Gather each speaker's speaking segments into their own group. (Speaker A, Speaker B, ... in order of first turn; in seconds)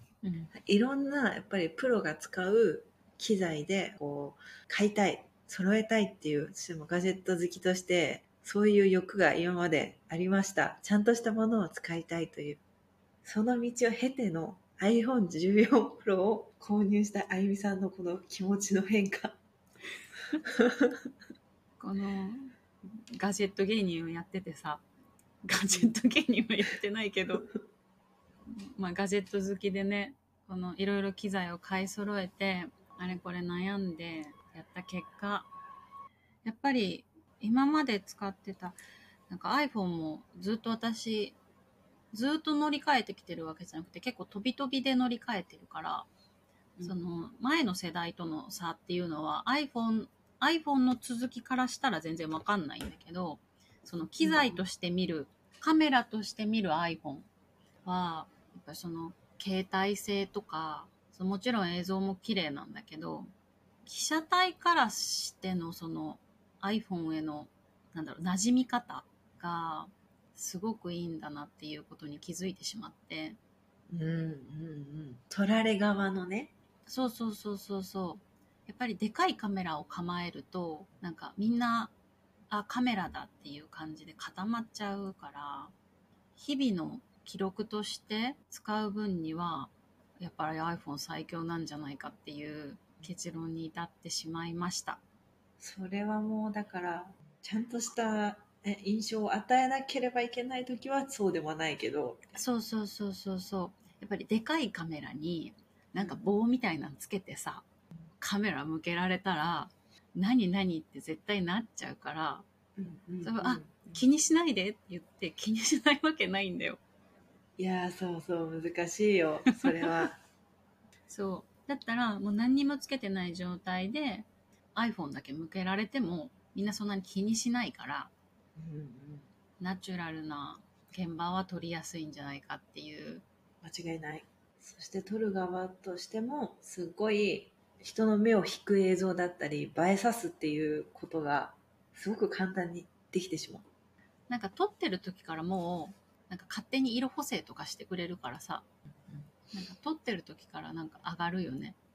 Speaker A: 0.2-0.5, 21.8-24.8, 25.4-27.5, 28.5-35.5, 36.5-41.4, 42.1-46.1, 46.8-57.3, 57.9-63.3, 63.9-73.4, 76.9-81.9, 82.5-85.7, 86.4-95.0, 102.3-107.7, 108.2-112.5, 113.2-116.8, 121.1-128.1, 129.6-133.2, 144.3-148.7, 149.5-151.8
Speaker B: 0.5-12.6, 13.2-19.4, 20.4-20.9, 54.2-54.6, 73.9-76.5, 95.6-102.2, 106.0-106.3, 112.8-114.0, 117.6-120.2, 128.6-129.3, 133.6-143.7